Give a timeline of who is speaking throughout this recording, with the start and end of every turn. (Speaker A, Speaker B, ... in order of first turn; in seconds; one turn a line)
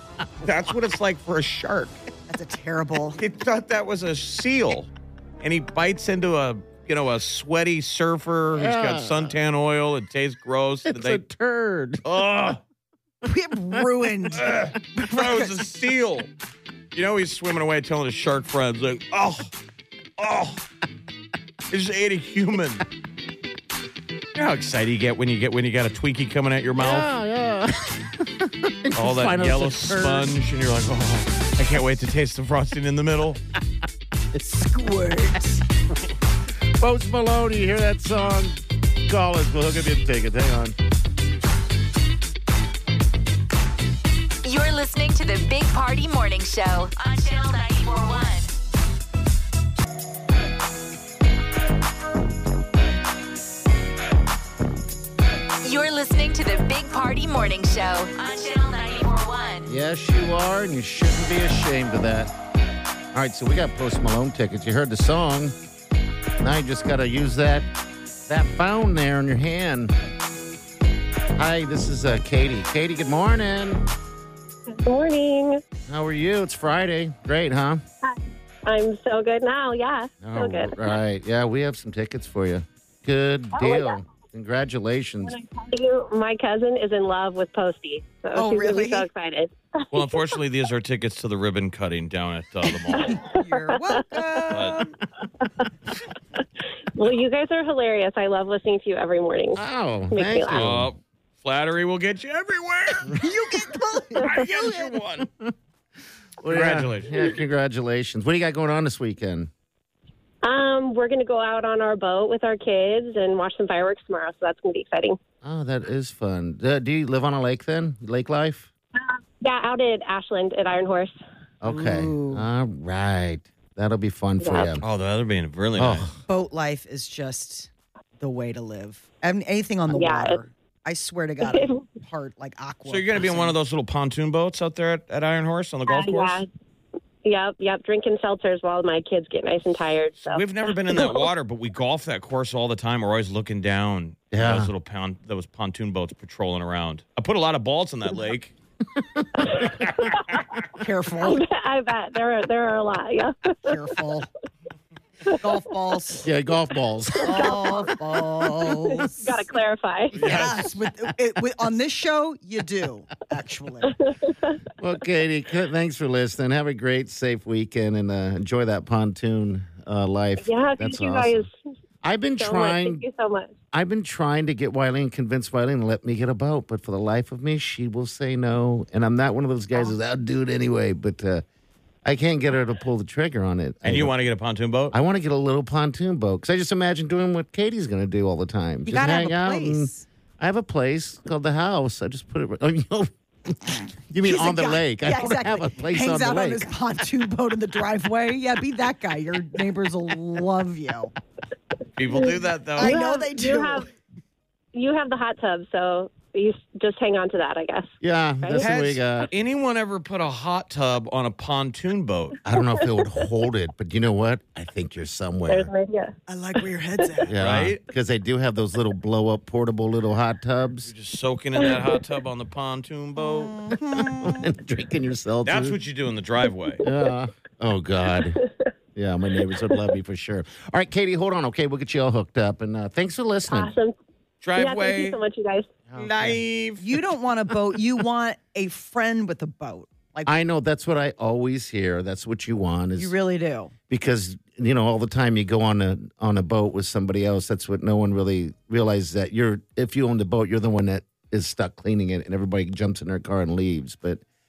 Speaker A: 0.4-2.0
Speaker B: 2.3-3.2
Speaker A: 3.2-4.9
Speaker A: 5.4-11.2
Speaker C: 8.6-9.3
Speaker C: 10.9-12.0
Speaker A: 12.0-12.6
Speaker B: 13.2-15.5
Speaker A: 14.3-16.3
Speaker A: 16.9-19.5
Speaker A: 20.2-20.6
Speaker A: 21.7-22.9
Speaker A: 24.4-27.1
Speaker C: 26.8-30.3
Speaker A: 29.0-33.4
Speaker B: 34.4-35.6
Speaker C: 36.8-40.8
Speaker D: 44.4-48.5
Speaker D: 55.6-59.7
Speaker C: 59.7-62.3
Speaker C: 63.1-65.5
Speaker C: 66.4-67.7
Speaker C: 68.3-69.9
Speaker C: 71.4-73.9
Speaker E: 74.7-75.6
Speaker C: 75.9-77.8
Speaker E: 78.0-80.8
Speaker C: 80.2-85.3
Speaker E: 83.5-84.0
Speaker E: 85.2-90.2
Speaker B: 88.3-89.1
Speaker A: 89.9-93.2
Speaker E: 92.9-94.5
Speaker B: 93.0-94.9
Speaker A: 94.5-94.8
Speaker E: 95.4-95.7
Speaker E: 97.0-100.7
Speaker C: 99.5-100.9
Speaker A: 100.5-103.2
Speaker B: 103.2-104.3
Speaker A: 104.2-105.3
Speaker C: 104.4-105.5
Speaker C: 106.4-109.5
Speaker A: 106.5-107.4
Speaker E: 110.4-115.2
Speaker C: 115.4-118.7
Speaker E: 119.0-121.1
Speaker C: 121.6-124.8
Speaker B: 121.7-122.5
Speaker E: 124.4-124.8
Speaker A: 124.8-126.1
Speaker C: 125.8-126.2
Speaker B: 126.3-133.5
Speaker E: 129.9-130.4
Speaker E: 131.4-131.9
Speaker A: 132.9-136.4
Speaker E: 135.9-136.5
Speaker E: 137.2-141.3
Speaker A: 140.2-148.5
Speaker C: 144.3-144.7
Speaker C: 149.0-149.7
Speaker E: 149.5-150.5
Speaker B: 150.8-151.4
Speaker E: 151.2-153.8
Speaker B: 153.7-154.3
Speaker B: 155.4-156.3
Speaker C: 156.2-157.8
Speaker B: 157.2-159.2
Speaker E: 157.3-157.6
Speaker E: 158.7-160.3
Speaker A: 160.2-160.7
Speaker B: 160.2-163.9
Speaker E: 163.9-164.6
Speaker C: 164.8-171.5
Speaker E: 170.4-171.5
Speaker C: 172.0-173.0
Speaker E: 172.4-173.5
Speaker C: 173.7-181.4
Speaker C: 182.1-184.1
Speaker A: 183.8-184.9
Speaker C: 184.9-196.7
Speaker B: 188.9-190.0
Speaker B: 194.2-201.1
Speaker A: 202.0-203.0
Speaker E: 202.1-203.9
Speaker B: 202.8-203.9
Speaker E: 204.7-208.7
Speaker C: 208.0-209.3
Speaker A: 208.6-212.4
Speaker C: 212.4-215.7
Speaker E: 215.5-216.2
Speaker B: 216.3-217.3
Speaker C: 217.3-220.9
Speaker A: 217.4-217.8
Speaker A: 220.9-223.6
Speaker B: 223.5-224.4
Speaker C: 223.9-225.8
Speaker A: 225.5-226.8
Speaker C: 226.8-228.4
Speaker E: 228.3-228.7
Speaker C: 228.9-233.7
Speaker E: 233.5-234.0
Speaker A: 234.4-235.2
Speaker E: 234.6-235.7
Speaker C: 235.9-236.4
Speaker A: 236.0-236.8
Speaker B: 236.8-240.4
Speaker C: 240.2-243.1
Speaker B: 243.0-243.7
Speaker C: 243.9-254.2